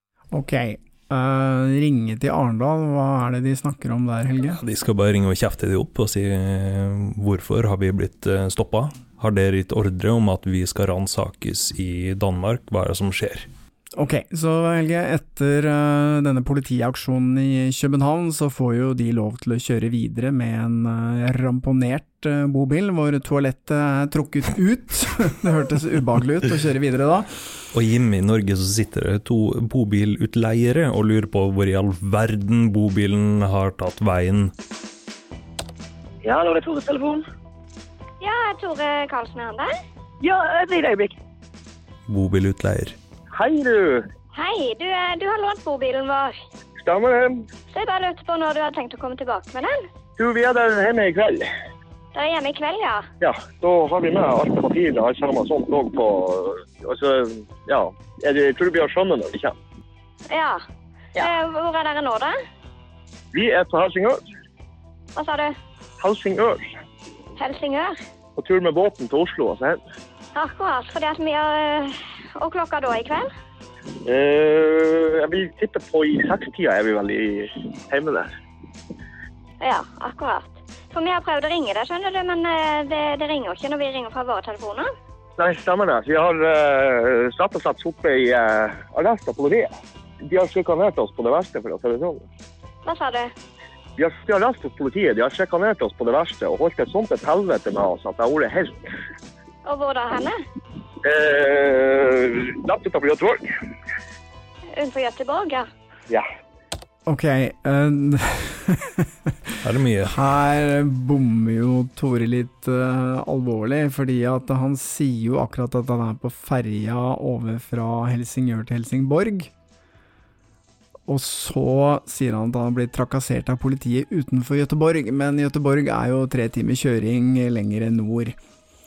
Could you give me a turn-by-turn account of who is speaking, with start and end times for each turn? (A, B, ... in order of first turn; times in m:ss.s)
0:00.3-0:04.6 A
0:04.6-0:13.5 B
0:14.0-0:27.3 A
0:27.7-0:34.5 B
0:36.2-0:37.2 C
0:38.2-0:39.7 D
0:40.2-0:41.2 C
0:42.1-0:42.9 B
0:43.3-0:44.1 E
0:44.3-0:46.4 D
0:46.8-0:47.5 E
0:47.7-0:49.9 D
0:50.2-0:51.5 E
0:52.1-0:53.1 D
0:53.2-0:59.6 E
1:00.3-1:00.6 D
1:01.2-1:02.4 D
1:03.3-1:04.2 E
1:05.1-1:05.6 D
1:06.0-1:06.7 E
1:07.4-1:08.0 D
1:08.4-1:09.8 E
1:10.3-1:13.3 D
1:14.0-1:18.3 E
1:19.6-1:24.9 D
1:25.4-1:29.7 E
1:30.2-1:32.2 E
1:32.8-1:33.3 D
1:34.0-1:38.8 E
1:39.6-1:40.4 D
1:41.0-1:43.5 E
1:44.7-1:45.7 D
1:47.1-1:59.5 A
1:49.6-1:50.1 B
2:01.1-2:08.4 A